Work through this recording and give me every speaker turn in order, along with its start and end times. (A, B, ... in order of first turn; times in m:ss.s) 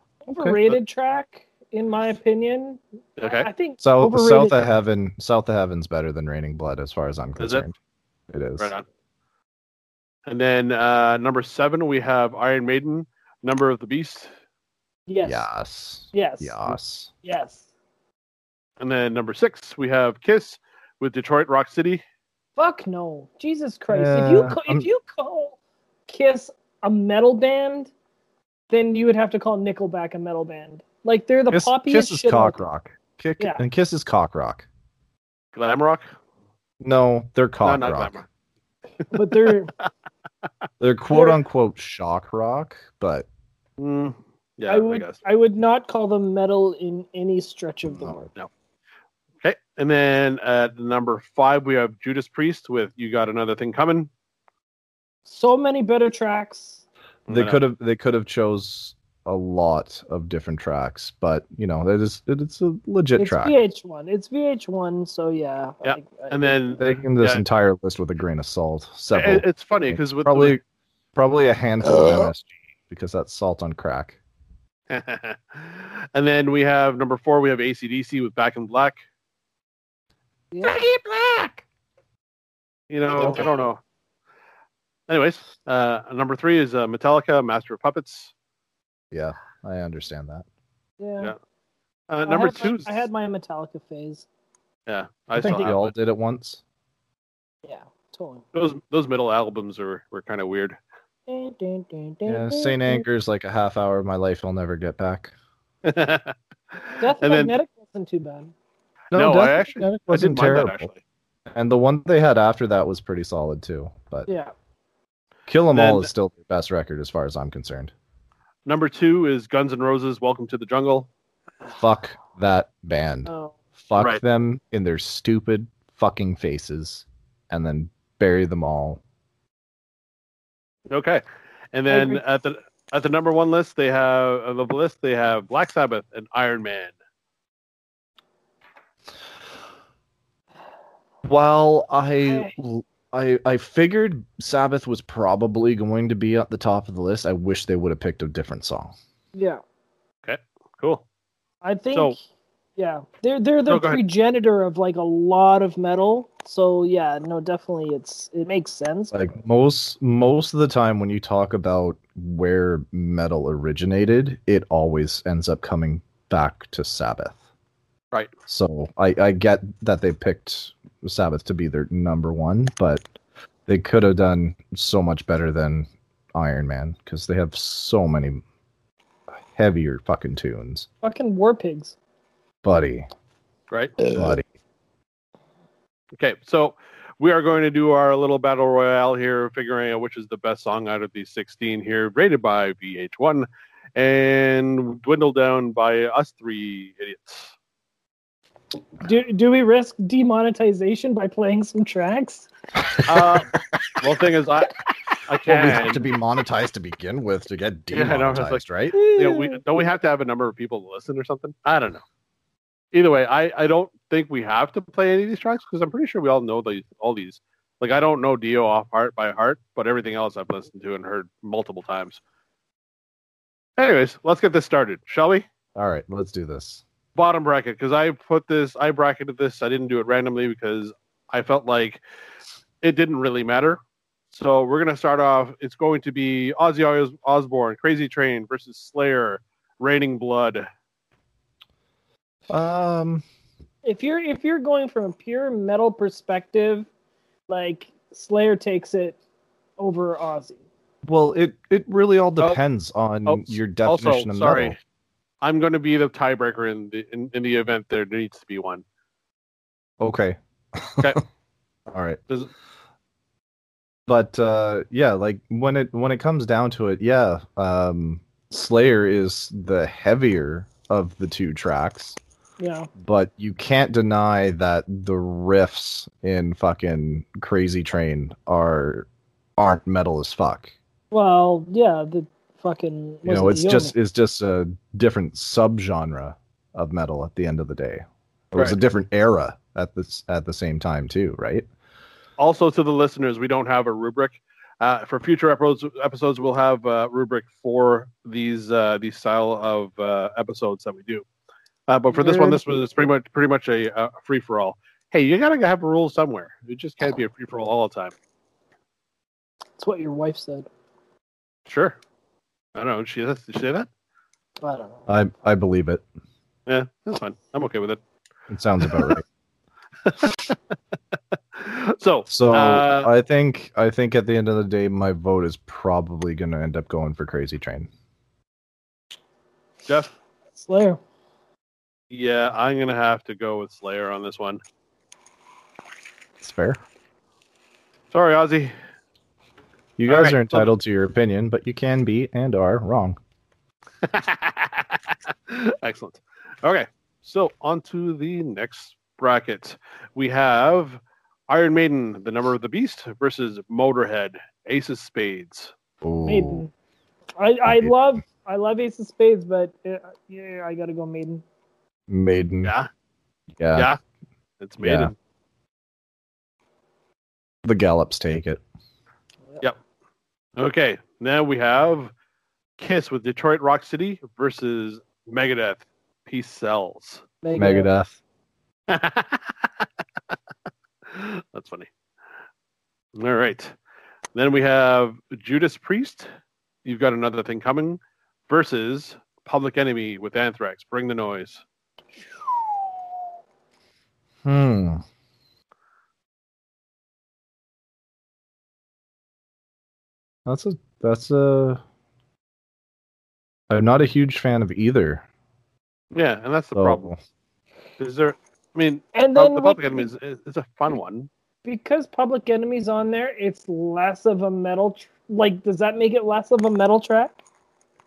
0:00.2-0:04.6 A
0:00.4-0:00.6 B
0:03.2-0:03.5 C
0:03.8-0:07.8 B
0:07.4-0:07.6 C
0:08.3-0:08.7 B
0:08.6-0:08.8 C
0:10.3-0:14.3 C
0:15.1-0:15.5 A
0:15.2-0:17.1 B
0:16.1-0:17.6 A
0:18.8-0:22.0 C
0:22.6-0:25.6 A
0:23.9-0:24.9 B
0:26.1-0:27.9 A
0:28.7-0:32.6 A
0:31.5-0:34.7 B
0:35.5-0:36.1 C
0:36.8-0:38.2 B
0:37.6-0:38.2 C
0:39.1-0:39.7 A
0:40.8-0:43.3 B
0:43.8-0:45.2 C
0:44.7-0:48.3 A
0:47.9-0:48.3 B
0:49.4-0:54.1 C
0:55.3-0:56.8 A
0:57.3-0:57.6 C
0:57.3-1:03.6 B
1:03.2-1:06.8 A
1:05.8-1:07.4 C
1:06.8-1:10.6 B
1:09.1-1:10.6 C
1:11.2-1:14.2 B
1:14.9-1:19.0 C
1:20.5-1:20.8 A
1:22.9-1:23.8 C
1:25.1-1:28.3 C
1:29.1-1:30.4 B
1:31.0-1:31.3 A
1:32.1-1:33.0 C
1:32.3-1:34.3 A
1:34.9-1:35.9 C
1:35.4-1:36.6 B
1:37.6-1:38.4 A
1:38.5-1:40.8 C
1:41.3-1:43.0 A
1:42.3-1:45.3 B
1:45.8-1:46.3 C
1:46.9-1:47.5 C
1:47.0-1:48.5 A
1:49.1-1:50.9 B
1:49.1-1:51.0 C
1:51.5-1:54.3 B
1:54.3-1:54.5 A
1:55.5-1:57.9 B
1:55.7-1:56.1 C
1:58.7-2:01.1 C
2:01.7-2:09.0 B
2:03.3-2:03.6 A
2:10.9-2:16.9 C
2:11.9-2:12.2 A
2:21.2-2:29.0 B
2:22.3-2:22.5 A
2:29.3-2:29.6 A
2:30.2-2:31.0 C
2:31.6-2:32.2 A
2:32.8-2:39.1 A
2:33.7-2:34.0 C
2:39.1-2:47.4 B
2:48.5-2:53.0 B
2:53.7-2:58.4 B
2:59.5-3:00.9 B
3:01.0-3:02.0 A
3:02.6-3:03.1 B
3:03.7-3:04.0 C
3:04.0-3:04.5 B
3:06.2-3:17.5 C
3:19.0-3:22.5 A
3:23.1-3:26.0 C
3:25.5-3:29.0 B
3:27.9-3:32.0 C
3:28.9-3:29.6 A
3:32.9-3:42.2 C
3:43.8-3:45.4 C
3:45.8-3:46.8 B
3:47.2-3:52.0 C
3:52.8-3:53.8 C
3:54.3-4:00.7 C
4:02.5-4:03.2 B
4:03.8-4:06.9 A
4:07.5-4:09.2 A
4:09.8-4:10.6 A
4:11.0-4:14.8 B
4:13.3-4:14.8 C
4:15.4-4:18.8 C
4:20.0-4:21.2 B
4:21.9-4:22.2 B
4:24.1-4:32.2 B
4:32.6-4:32.9 A
4:33.0-4:40.7 B
4:41.1-4:43.9 A
4:43.3-4:51.7 B
4:52.4-5:01.2 C
5:01.9-5:08.1 C
5:02.1-5:02.6 A
5:09.8-5:10.7 A
5:11.7-5:12.0 C
5:12.8-5:13.9 C
5:14.6-5:15.0 A
5:15.1-5:16.0 B
5:16.7-5:18.0 C
5:18.5-5:19.2 B
5:18.8-5:19.2 C
5:20.0-5:20.6 C
5:21.6-5:23.1 C
5:22.3-5:27.9 B
5:29.9-5:30.1 C
5:30.6-5:31.0 A
5:32.1-5:34.6 C
5:36.4-5:36.8 B
5:38.1-5:38.7 C
5:40.0-5:43.2 B
5:40.1-5:40.7 C
5:44.0-5:55.7 C
5:56.0-5:56.6 B
5:56.2-5:56.7 A
5:57.4-6:01.4 A
5:57.7-5:57.9 B
6:02.1-6:02.7 B
6:02.6-6:02.9 C
6:03.6-6:03.9 B
6:04.6-6:05.2 C
6:04.8-6:05.1 B
6:07.6-6:08.6 B
6:10.6-6:12.1 C
6:12.8-6:17.2 C
6:17.4-6:17.9 A
6:17.6-6:18.2 B
6:18.9-6:19.5 C
6:21.1-6:21.9 C
6:23.2-6:23.7 C
6:24.3-6:26.3 C
6:26.8-6:31.6 C
6:34.4-6:35.0 B
6:40.5-6:41.8 B
6:43.7-6:45.2 B
6:46.1-6:47.1 C
6:46.8-6:47.2 B
6:48.0-6:51.3 C
6:49.1-6:50.0 A
6:51.6-6:57.4 A